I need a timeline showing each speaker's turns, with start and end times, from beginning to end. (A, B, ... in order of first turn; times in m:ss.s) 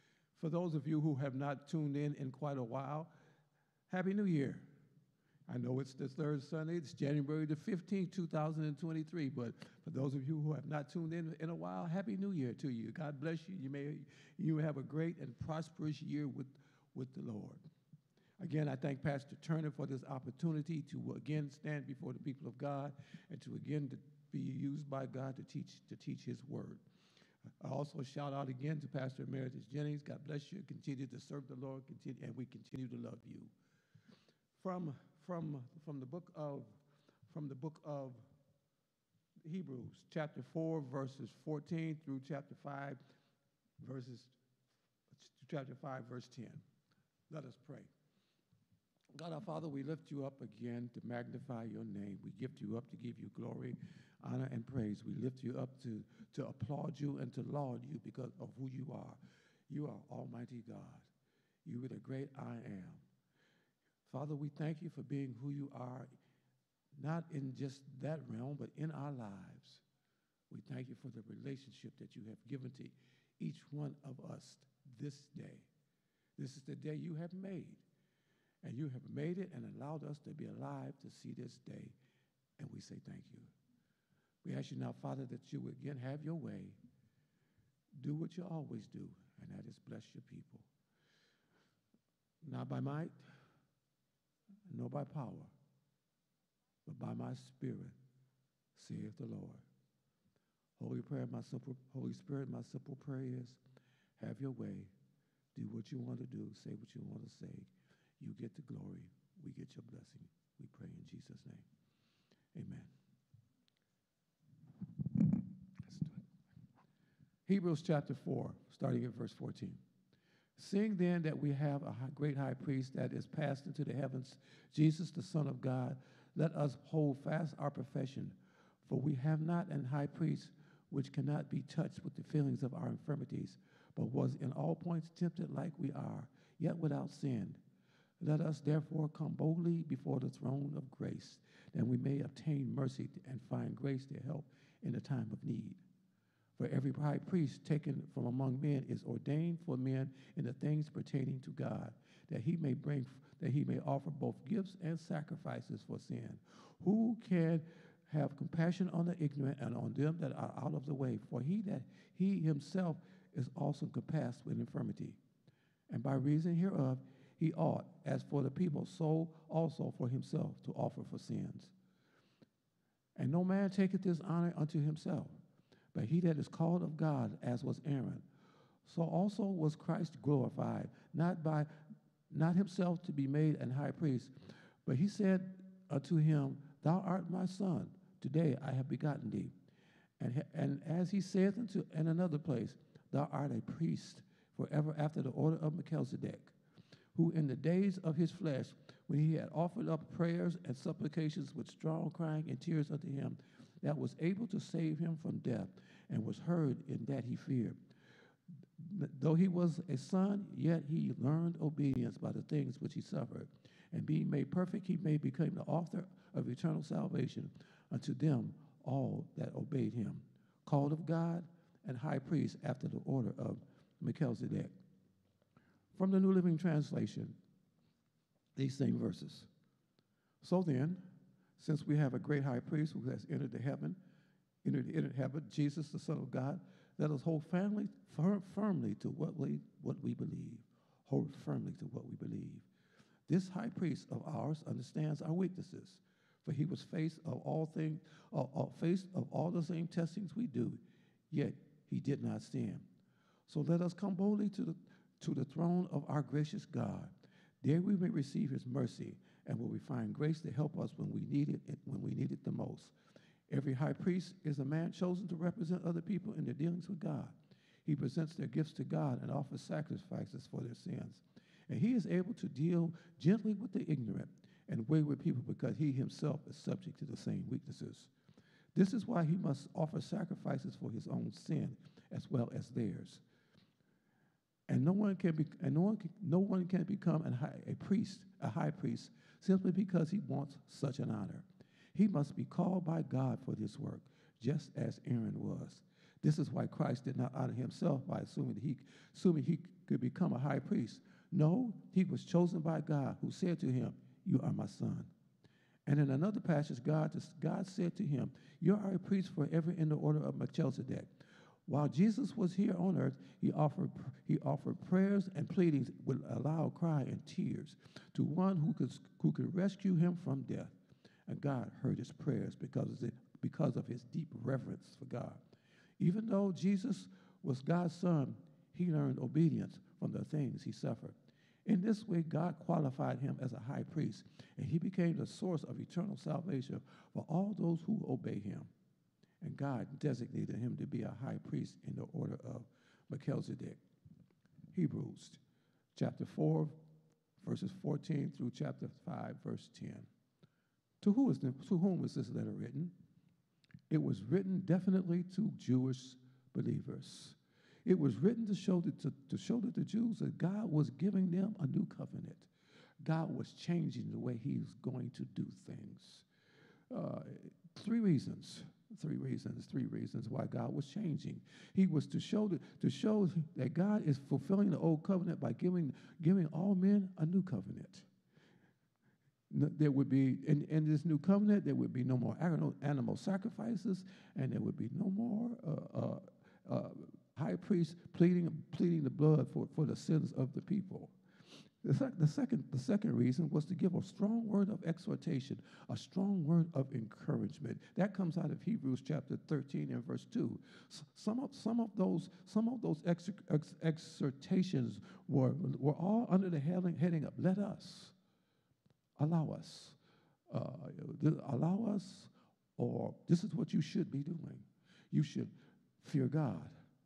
0:00.4-0:03.1 A
0:03.9-0:04.7 A
0:05.5-0:17.6 A
0:18.4-0:26.8 A
0:27.6-0:33.5 A
0:34.5-0:38.2 A
0:39.4-0:43.0 A
0:43.8-0:44.4 A
0:45.1-0:46.6 A
0:47.3-0:47.9 A
0:49.1-1:01.1 A
1:01.6-1:03.0 A
1:04.1-1:06.1 A
1:07.0-1:09.8 A
1:10.5-1:15.7 A
1:16.4-1:17.8 A
1:18.6-1:22.0 A
1:22.6-1:23.5 A
1:24.4-1:26.8 A
1:28.0-1:30.7 A
1:32.4-1:33.2 A
1:34.7-1:35.5 A
1:36.9-1:38.0 A
1:38.8-1:39.6 A
1:40.8-1:43.6 A
1:44.2-1:44.9 A
1:45.6-1:51.7 A
1:52.5-1:52.9 A
1:55.9-1:56.2 A
1:57.5-1:59.8 A
2:00.6-2:17.6 A
2:18.2-2:25.8 A
2:26.6-2:45.2 A
2:45.9-2:51.7 A
2:53.2-2:55.4 A
2:55.9-2:58.3 A
2:58.8-3:01.7 A
3:02.3-3:04.3 A
3:04.8-3:09.5 A
3:10.2-3:16.5 A
3:17.2-3:27.8 A
3:28.8-3:44.8 A
3:46.0-3:47.4 A
3:48.6-3:49.5 A
3:50.4-3:51.0 A
3:51.6-3:54.0 A
3:54.6-4:02.7 A
4:03.3-4:12.9 A
4:13.5-4:22.9 A
4:23.5-4:38.1 A
4:38.7-4:43.2 A
4:44.7-5:05.1 A
5:05.9-5:11.1 A
5:11.7-5:20.7 A
5:21.3-5:25.4 A
5:26.0-5:38.7 A
5:39.4-5:43.8 A
5:44.7-5:45.4 A
5:46.0-5:46.8 A
5:47.4-5:50.1 A
5:51.0-5:52.9 A
5:53.9-6:02.5 A
6:03.0-6:06.3 A
6:06.9-6:18.1 A
6:19.5-6:31.2 A
6:31.8-6:48.2 A
6:49.2-6:50.0 A
6:50.5-6:56.7 A